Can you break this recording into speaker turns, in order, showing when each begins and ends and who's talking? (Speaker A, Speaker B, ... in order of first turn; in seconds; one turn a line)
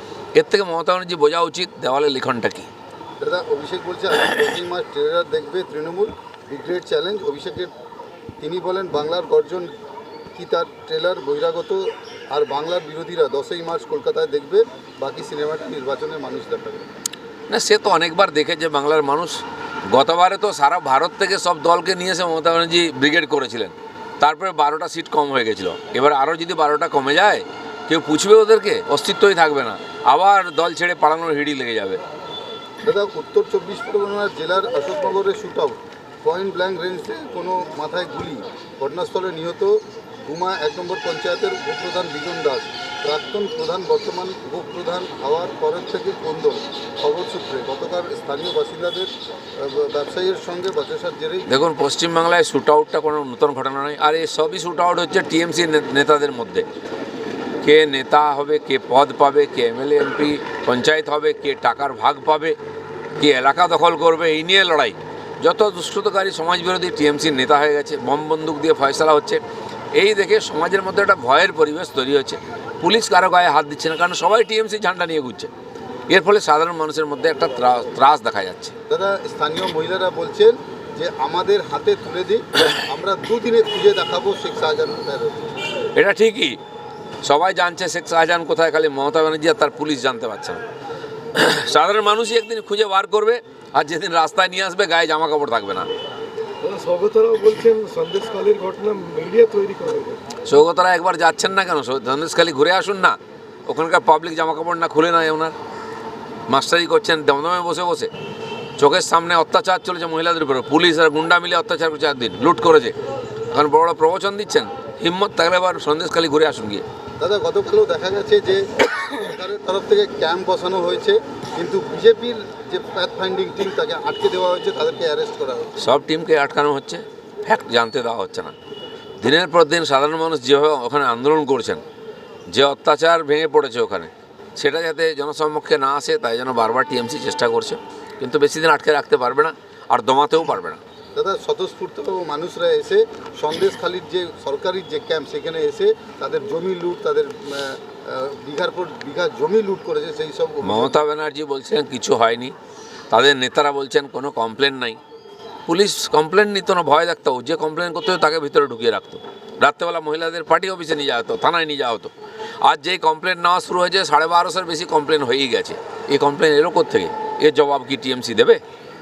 Speaker A: 0.3-2.7
Speaker B: 3.2-7.7
Speaker B: 8.4-9.7
Speaker B: 10.3-16.9
Speaker A: 17.5-32.0
Speaker B: 32.8-51.5
Speaker A: 51.5-56.6
Speaker A: 57.6-62.5
Speaker A: 63.2-69.4
Speaker A: 69.9-75.5
Speaker A: 76.1-78.7
Speaker B: 78.9-85.5
Speaker A: 85.9-86.6
Speaker A: 87.2-90.6
Speaker A: 91.3-95.9
Speaker C: 96.6-100.2
Speaker A: 100.4-105.5
Speaker A: 106.5-108.1
Speaker A: 108.8-112.9
Speaker A: 113.5-116.8
Speaker B: 117.2-125.7
Speaker A: 125.8-128.5
Speaker A: 129.2-131.8
Speaker A: 132.5-140.8
Speaker B: 141.1-151.0
Speaker A: 150.6-152.5
Speaker A: 153.1-155.0
Speaker A: 155.7-162.1
Speaker A: 162.6-168.6